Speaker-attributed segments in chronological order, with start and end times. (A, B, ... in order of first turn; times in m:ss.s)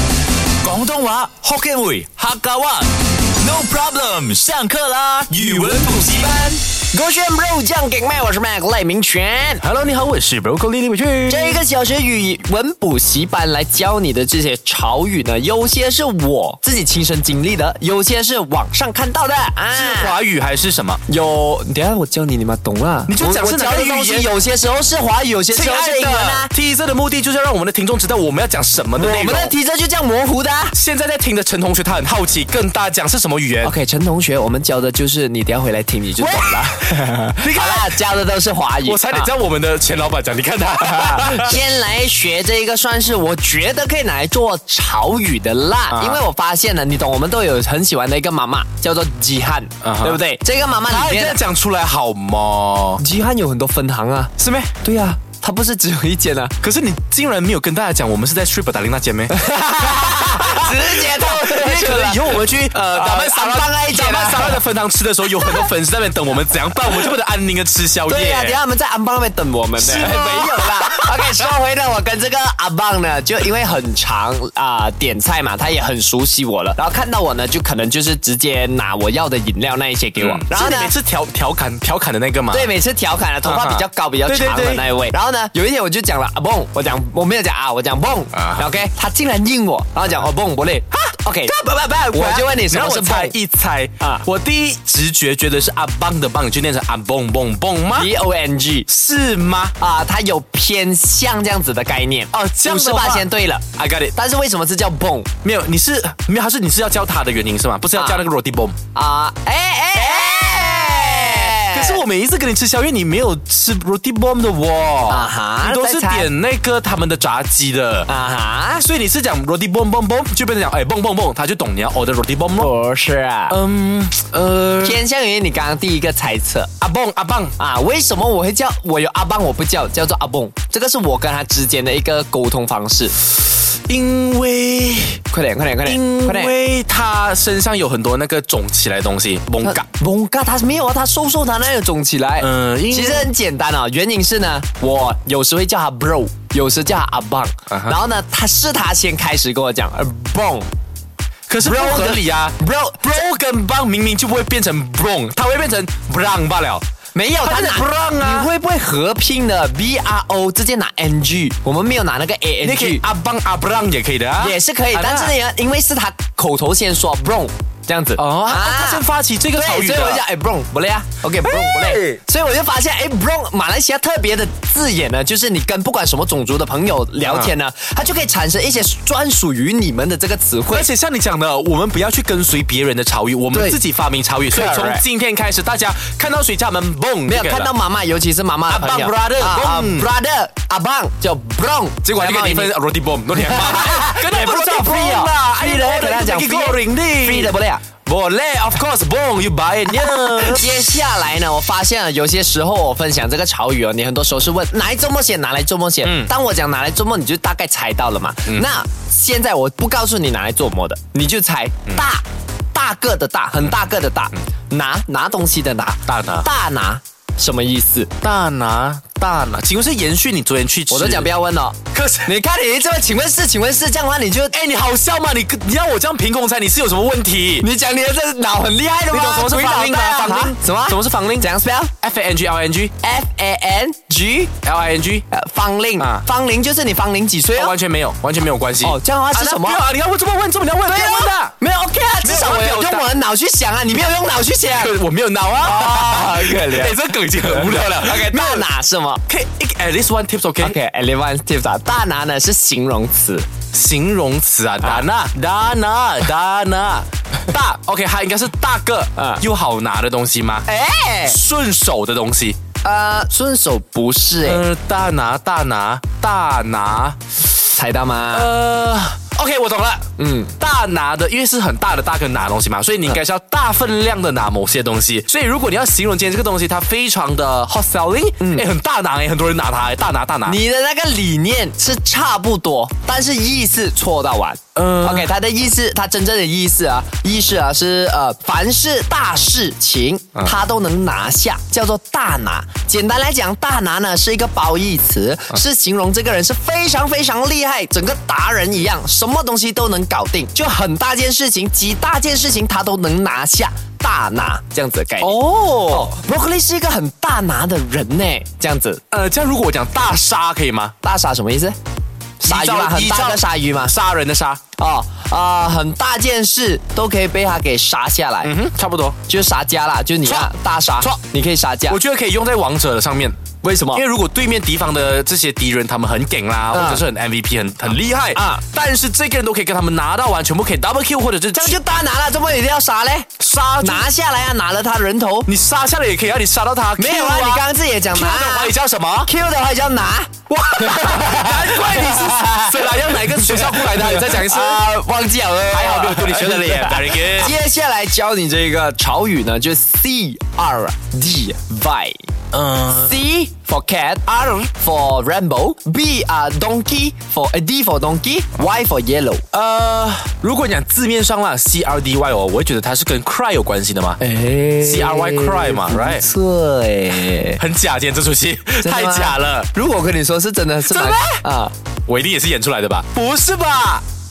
0:00.6-0:06.5 A
0:06.1-0:09.6 B
0:09.6-0:11.6 C
0:11.3-0:20.2 B
0:19.7-0:21.0 C
0:21.1-0:26.5 B
0:23.1-0:24.3 C
0:25.5-0:29.5 C
0:29.0-0:30.8 B
0:30.7-0:33.8 C
0:33.6-0:39.3 B
0:36.2-0:38.0 C
0:38.8-0:41.6 C
0:41.0-0:51.4 B
0:45.9-0:46.2 C
0:49.8-0:50.2 C
0:50.9-0:53.0 C
0:53.0-0:56.5 B
0:54.4-0:54.8 C
0:56.6-1:08.6 C
0:59.3-1:04.6 B
1:05.4-1:05.6 B
1:08.1-1:20.9 B
1:09.8-1:11.1 C
1:20.2-1:22.7 C
1:22.5-1:31.5 B
1:23.4-1:24.9 C
1:28.3-1:28.7 C
1:31.4-1:38.1 C
1:32.1-1:33.3 B
1:34.0-1:34.2 B
1:38.0-1:38.9 B
1:38.9-1:39.7 C
1:39.8-1:45.3 B
1:42.3-1:44.1 C
1:45.4-1:48.8 C
1:48.9-1:52.0 B
1:50.0-1:58.1 C
1:55.1-1:56.3 B
1:58.1-1:58.8 B
1:58.8-2:02.7 C
2:02.6-2:03.6 B
2:03.5-2:05.0 C
2:04.8-2:06.7 B
2:06.8-2:07.6 C
2:07.6-2:13.2 B
2:13.9-2:15.2 C
2:15.3-2:16.5 B
2:15.8-2:19.9 C
2:19.6-2:30.7 B
2:22.4-2:23.3 C
2:27.7-2:28.0 C
2:31.5-2:36.8 C
2:31.6-2:33.1 B
2:37.1-2:43.0 B
2:37.4-2:38.5 C
2:42.6-2:45.3 C
2:44.4-3:00.9 B
2:48.2-2:50.2 C
2:51.5-2:52.2 C
2:57.2-2:57.5 C
3:00.7-3:07.7 C
3:04.5-3:05.0 B
3:07.3-3:12.7 B
3:08.7-3:10.1 C
3:12.0-3:20.9 C
3:13.4-3:17.8 B
3:20.0-3:38.1 B
3:26.0-3:26.3 C
3:36.1-3:36.5 C
3:38.2-3:41.3 C
3:40.9-3:44.6 B
3:41.9-3:42.3 C
3:44.5-3:47.7 C
3:47.6-3:51.9 B
3:49.1-3:51.4 C
3:52.0-3:52.9 C
3:53.0-3:54.5 B
3:54.6-3:55.2 C
3:55.3-3:57.8 B
3:56.0-3:56.2 C
3:57.5-4:01.6 C
3:58.8-3:59.8 B
4:00.9-4:05.0 B
4:02.2-4:03.1 C
4:04.7-4:08.7 C
4:05.6-4:09.2 B
4:09.3-4:10.8 C
4:10.6-4:13.5 B
4:13.7-4:20.7 C
4:19.2-4:19.4 B
4:20.7-4:21.4 B
4:21.2-4:22.6 C
4:22.8-4:24.6 B
4:24.4-4:27.4 C
4:27.8-4:28.5 B
4:28.3-4:40.6 C
4:30.2-4:30.5 B
4:38.4-4:38.7 B
4:40.5-5:09.0 B
4:44.8-4:45.3 C
5:05.2-5:06.1 C
5:09.1-5:11.0 C
5:11.0-5:11.8 B
5:12.4-5:14.6 C
5:12.4-5:14.0 B
5:14.8-5:18.6 B
5:18.4-5:19.2 C
5:19.3-5:22.0 B
5:20.2-5:20.5 C
5:21.9-5:31.8 C
5:23.6-5:24.0 B
5:26.7-5:27.0 B
5:28.4-5:28.6 B
5:31.5-5:33.3 B
5:33.4-5:34.1 C
5:33.8-5:35.5 B
5:35.5-5:39.3 C
5:37.0-5:38.7 B
5:39.2-5:52.2 B
5:40.5-5:44.9 C
5:45.7-5:47.6 C
5:52.5-5:53.2 C
5:53.0-5:59.4 B
5:59.5-6:04.2 C
6:04.2-6:07.6 B
6:04.8-6:06.2 C
6:07.6-6:09.7 C
6:08.8-6:11.7 B
6:10.9-6:11.4 C
6:12.1-6:14.0 C